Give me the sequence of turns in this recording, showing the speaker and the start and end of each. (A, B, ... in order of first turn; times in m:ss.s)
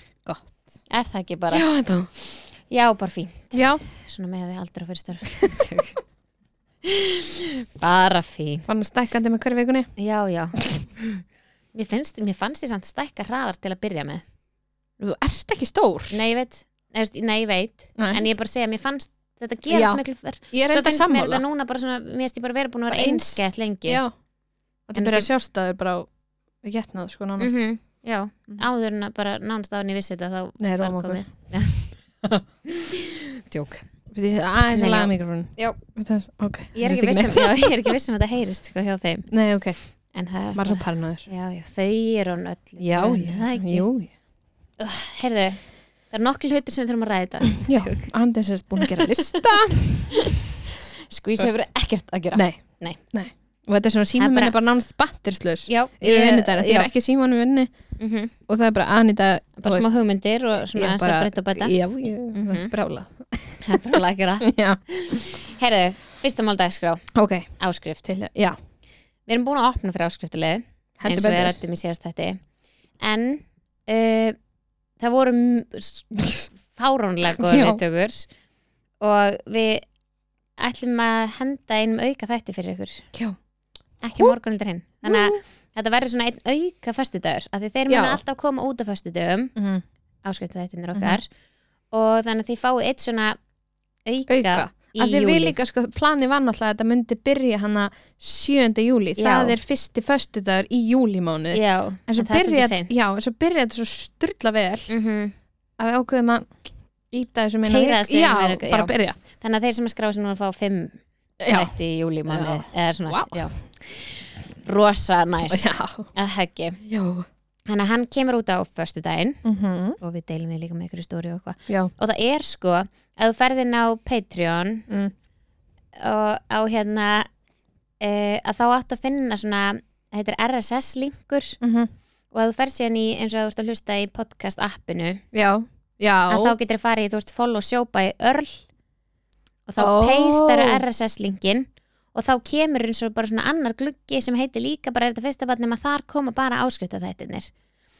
0:00.2-0:00.8 A
0:00.9-0:01.7 B
0:01.5-0:02.1 A
0:02.6-0:06.0 B
0:03.5-0:03.8 A
0:06.8-0:09.2 B
0:08.7-0:09.9 A
0:10.0-0:14.2 B
0:15.0-0:16.2 A
0:16.1-0:24.0 B
0:18.0-0:18.2 A
0:19.7-0:21.4 A
0:22.9-0:24.1 A
0:24.9-0:26.1 A
0:25.0-0:25.3 B
0:26.6-0:27.6 A
0:27.4-0:32.0 B
0:30.6-0:32.4 A
0:32.7-0:33.8 B
0:34.1-0:38.0 A
0:34.7-0:35.8 B
0:36.7-0:39.3 B
0:39.3-0:39.8 A
0:40.1-0:43.8 B
0:40.5-0:41.3 A
0:42.8-0:44.1 A
0:44.8-0:48.1 B
0:47.6-0:50.3 A
0:48.8-0:49.4 B
0:51.1-0:53.0 B
0:52.3-1:04.9 A
0:54.2-0:54.5 B
0:55.7-0:56.9 B
0:58.0-0:58.3 B
0:59.6-1:01.8 B
1:02.3-1:02.7 B
1:03.6-1:08.2 B
1:07.1-1:08.6 A
1:09.3-1:12.4 B
1:11.0-1:11.6 A
1:13.0-1:14.4 B
1:15.0-1:18.3 B
1:17.4-1:17.8 A
1:19.0-1:19.8 B
1:20.6-1:23.1 B
1:24.0-1:29.5 B
1:25.0-1:25.4 A
1:27.9-1:28.2 A
1:29.6-1:29.8 A
1:30.2-1:31.3 B
1:30.9-1:31.2 A
1:31.9-1:33.4 B
1:34.0-1:35.6 B
1:34.3-1:44.9 A
1:39.2-1:39.6 B
1:41.5-1:42.9 B
1:44.9-1:45.3 B
1:45.8-1:49.2 A
1:47.6-1:56.8 B
1:51.4-1:53.6 A
1:55.5-1:56.1 A
1:56.8-1:57.2 A
1:57.6-1:59.4 B
1:59.4-2:00.0 A
2:00.0-2:04.9 B
2:06.0-2:07.3 B
2:08.0-2:11.6 B
2:11.6-2:11.9 A
2:12.3-2:15.2 B
2:15.3-2:16.6 A
2:16.3-2:18.6 B
2:19.7-2:27.5 B
2:19.8-2:20.8 A